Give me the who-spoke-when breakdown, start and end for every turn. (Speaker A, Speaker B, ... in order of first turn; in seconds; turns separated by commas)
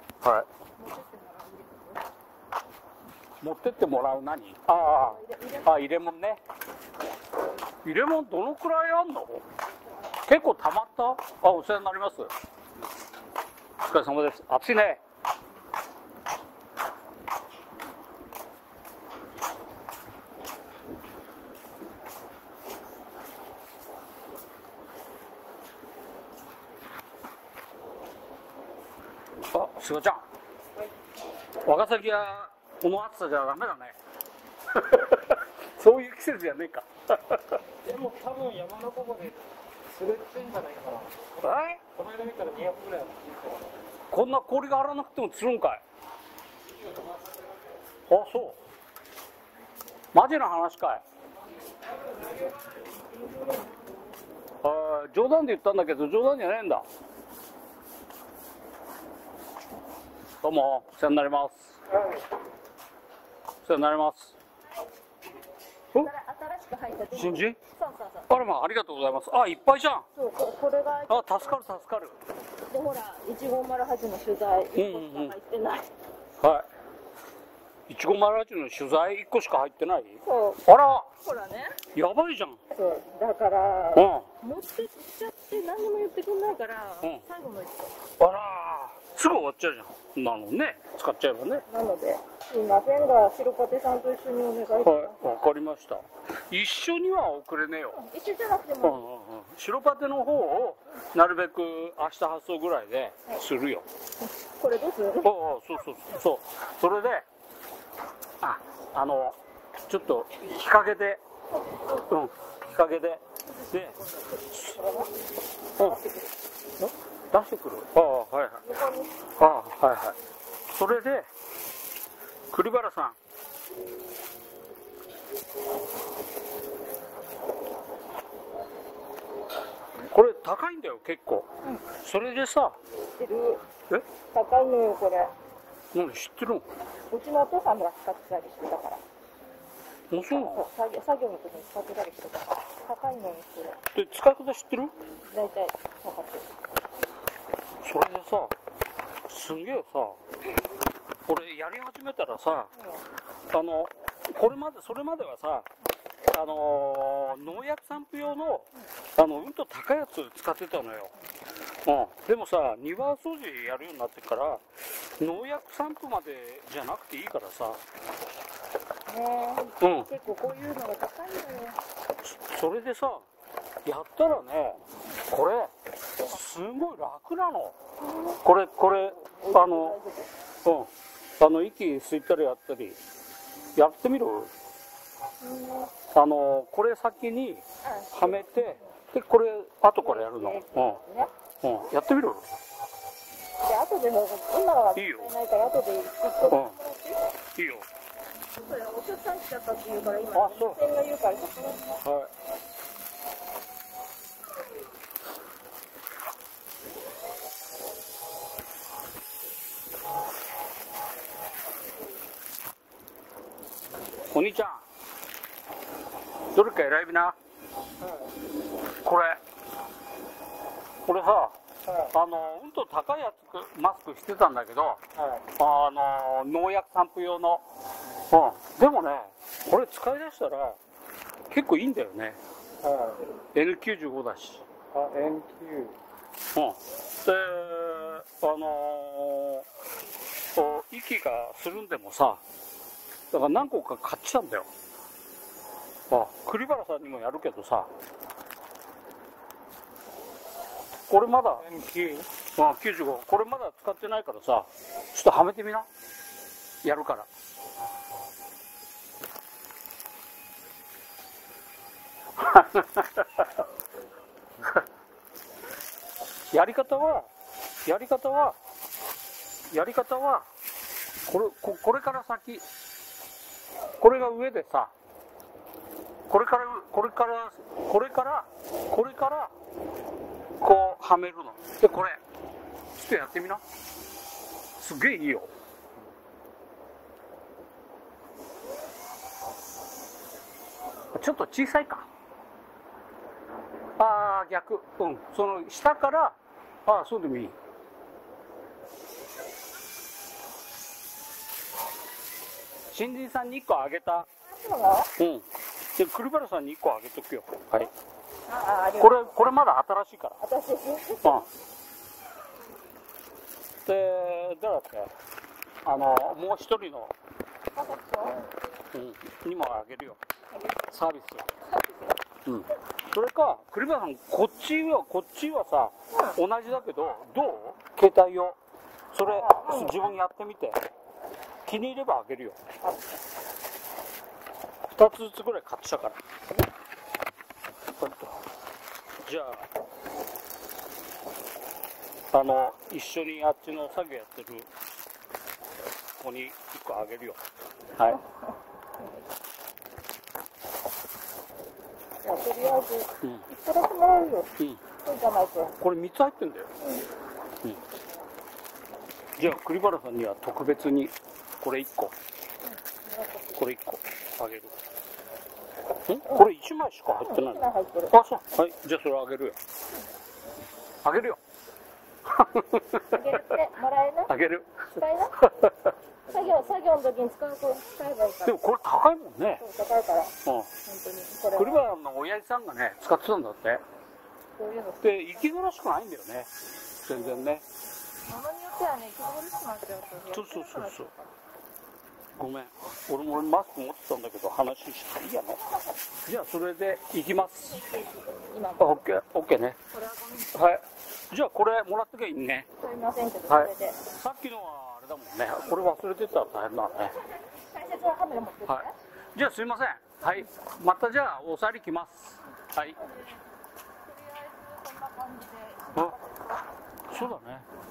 Speaker A: 0.2-0.5, Speaker B: 0.8-2.1, Speaker A: 3.4-6.4, Speaker B: 4.7-5.8, Speaker A: 7.8-9.4, Speaker A: 10.3-12.3, Speaker A: 13.8-15.0, Speaker A: 29.5-30.2, Speaker A: 31.6-34.0, Speaker A: 34.7-37.6, Speaker C: 37.8-41.4, Speaker A: 41.4-41.8, Speaker C: 41.9-43.7, Speaker A: 44.1-45.8, Speaker A: 48.1-48.6, Speaker A: 50.1-51.0, Speaker A: 54.6-56.9, Speaker A: 60.4-61.8, Speaker A: 63.6-64.4, Speaker B: 65.9-68.3, Speaker A: 67.1-67.6, Speaker A: 68.3-70.1, Speaker B: 70.2-71.8, Speaker A: 71.1-72.2, Speaker B: 72.7-75.9, Speaker A: 74.8-75.4, Speaker A: 76.4-76.7, Speaker A: 77.9-81.1, Speaker B: 80.2-80.6, Speaker B: 81.2-81.8, Speaker A: 81.9-82.6, Speaker B: 82.7-88.0, Speaker A: 83.9-84.3, Speaker A: 88.2-91.7, Speaker B: 91.7-95.3, Speaker A: 94.8-98.0, Speaker B: 97.9-99.1, Speaker A: 98.8-103.9, Speaker B: 104.2-105.4, Speaker A: 105.2-107.3, Speaker A: 108.4-109.4, Speaker A: 109.9-111.2, Speaker B: 111.5-112.1, Speaker A: 112.1-114.8, Speaker B: 114.0-115.2, Speaker B: 115.8-116.4, Speaker A: 116.8-118.7, Speaker B: 118.6-119.3, Speaker A: 119.4-120.2, Speaker A: 120.7-121.3, Speaker A: 122.5-123.2, Speaker A: 130.1-132.8, Speaker B: 133.2-133.6, Speaker B: 134.3-135.3, Speaker A: 135.9-136.7, Speaker B: 137.1-139.0, Speaker A: 140.1-140.6, Speaker B: 140.3-143.8, Speaker A: 143.9-144.9, Speaker B: 145.3-146.5, Speaker A: 147.8-148.6, Speaker A: 149.3-150.2, Speaker A: 151.3-152.7, Speaker B: 152.8-153.0, Speaker A: 153.5-155.7, Speaker A: 156.3-161.1, Speaker A: 161.8-167.8, Speaker B: 169.1-171.8, Speaker A: 169.8-170.1, Speaker A: 172.2-173.3, Speaker A: 173.8-177.8, Speaker B: 178.3-180.4, Speaker A: 178.4-180.0, Speaker A: 180.7-183.0, Speaker A: 183.8-184.5, Speaker B: 185.4-185.9, Speaker A: 186.1-191.0, Speaker B: 187.8-188.9, Speaker B: 190.0-191.3, Speaker A: 191.6-192.4, Speaker B: 193.6-197.2, Speaker A: 194.9-195.3, Speaker A: 196.5-196.8, Speaker A: 197.6-197.9, Speaker B: 198.6-202.0, Speaker A: 200.3-200.8, Speaker A: 202.0-202.3, Speaker A: 214.3-214.8, Speaker A: 216.5-217.4, Speaker C: 218.0-218.3, Speaker A: 219.0-219.4, Speaker A: 221.1-221.6, Speaker C: 221.8-222.1, Speaker A: 222.1-225.0, Speaker C: 225.2-225.5, Speaker A: 225.6-227.6, Speaker A: 228.3-230.8, Speaker A: 231.5-232.4, Speaker C: 232.8-233.2, Speaker A: 233.6-234.7, Speaker C: 234.9-236.0, Speaker A: 236.6-239.7, Speaker A: 240.6-242.4, Speaker A: 243.3-244.7, Speaker A: 246.1-247.9, Speaker A: 251.1-251.7, Speaker C: 251.6-252.3, Speaker A: 252.6-255.9, Speaker A: 256.8-257.3, Speaker A: 262.4-263.5, Speaker A: 266.5-267.3, Speaker A: 267.9-268.6, Speaker A: 269.7-270.5, Speaker A: 271.3-272.6, Speaker A: 274.0-274.9, Speaker A: 276.3-279.5, Speaker A: 280.6-282.2, Speaker A: 283.0-283.6, Speaker A: 284.8-285.5, Speaker A: 291.1-292.1, Speaker A: 294.0-297.6, Speaker A: 302.9-304.3, Speaker B: 304.4-305.1, Speaker A: 305.2-307.9, Speaker B: 308.5-309.5, Speaker A: 309.0-310.4, Speaker B: 310.4-311.5, Speaker A: 313.9-315.1, Speaker A: 315.9-317.1, Speaker B: 317.7-318.5, Speaker A: 318.9-320.2, Speaker B: 320.5-320.9, Speaker A: 320.9-321.5, Speaker B: 321.7-322.1, Speaker A: 322.5-328.6, Speaker B: 326.1-326.4, Speaker A: 329.1-330.8, Speaker B: 329.2-330.2, Speaker A: 331.7-332.6, Speaker A: 334.9-336.2, Speaker A: 338.0-338.4, Speaker A: 339.2-339.7, Speaker A: 342.3-344.7, Speaker A: 346.2-347.4, Speaker B: 348.1-349.2, Speaker B: 352.2-355.7, Speaker A: 353.2-353.5, Speaker A: 355.8-356.7, Speaker B: 356.8-357.1, Speaker A: 359.4-362.1, Speaker B: 362.6-363.6, Speaker A: 363.6-364.8, Speaker A: 366.1-369.6, Speaker B: 367.2-368.1, Speaker A: 371.0-371.4, Speaker A: 372.3-373.6, Speaker B: 373.1-374.3, Speaker A: 374.3-375.9, Speaker B: 375.0-375.4, Speaker B: 376.3-378.6, Speaker A: 378.4-379.6, Speaker B: 379.6-381.9, Speaker A: 380.4-380.7, Speaker A: 381.6-383.8, Speaker B: 384.6-385.5, Speaker A: 385.0-386.5, Speaker A: 387.0-387.6, Speaker B: 387.1-387.4, Speaker B: 388.2-391.4, Speaker A: 390.3-391.1, Speaker A: 392.4-395.6, Speaker A: 396.3-397.8, Speaker B: 397.6-399.0, Speaker A: 398.8-399.8, Speaker B: 399.9-400.6, Speaker A: 400.5-402.7, Speaker B: 402.8-404.0, Speaker A: 403.5-407.2, Speaker B: 407.0-408.9, Speaker A: 408.7-413.0, Speaker B: 412.9-413.4, Speaker B: 414.0-416.7, Speaker A: 417.1-417.7